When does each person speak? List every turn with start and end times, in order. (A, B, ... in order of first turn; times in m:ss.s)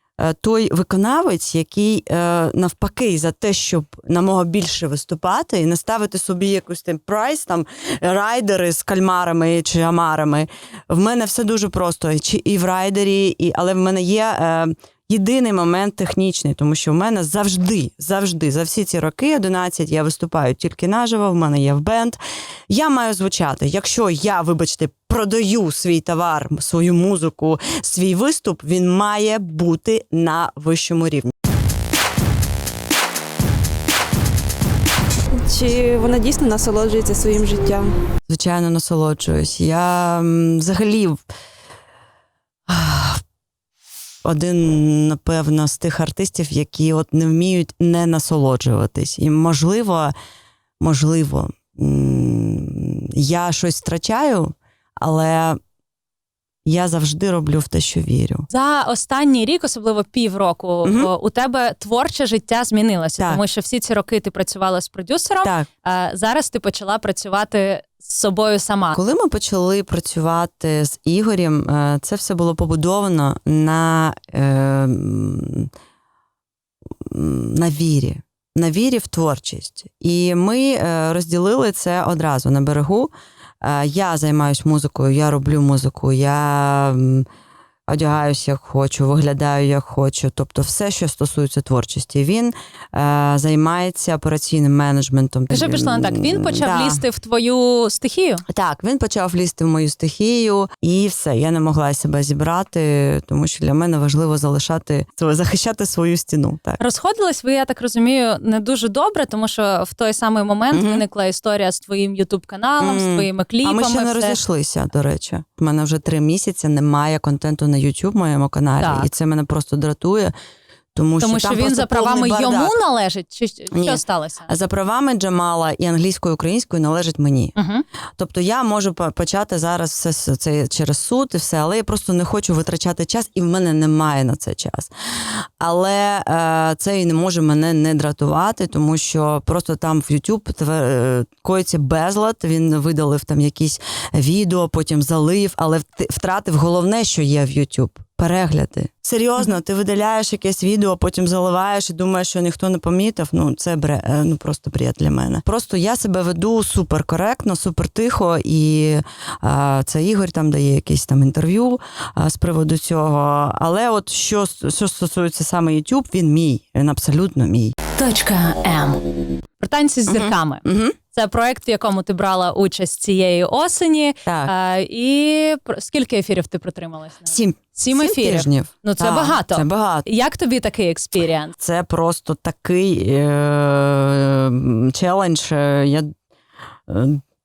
0:00.2-0:31.3 A
0:35.4-0:37.9 B
0:38.3-0:41.2 A
0:42.7-0:43.2 A
0:44.2-0:50.1 A
0:50.8-0:55.6 A
0:56.6-0:58.5 A
0:58.5-1:09.0 C
1:00.8-1:01.1 A
1:08.9-1:15.7 A
1:17.0-1:27.3 A
1:27.9-1:37.0 A
1:35.5-1:38.4 C
1:38.5-1:46.8 A
1:46.8-1:54.4 C
1:50.7-1:51.0 A
1:52.8-2:00.3 A
1:58.8-1:59.1 C
2:00.9-2:02.8 A
2:01.2-2:04.5 C
2:03.7-2:07.5 A
2:07.6-2:07.8 C
2:08.2-2:47.7 A
2:48.0-3:01.6 C
2:50.1-2:51.0 A
2:54.2-2:54.5 A
2:57.3-3:00.0 A
3:01.6-3:06.1 A
3:06.9-3:07.2 A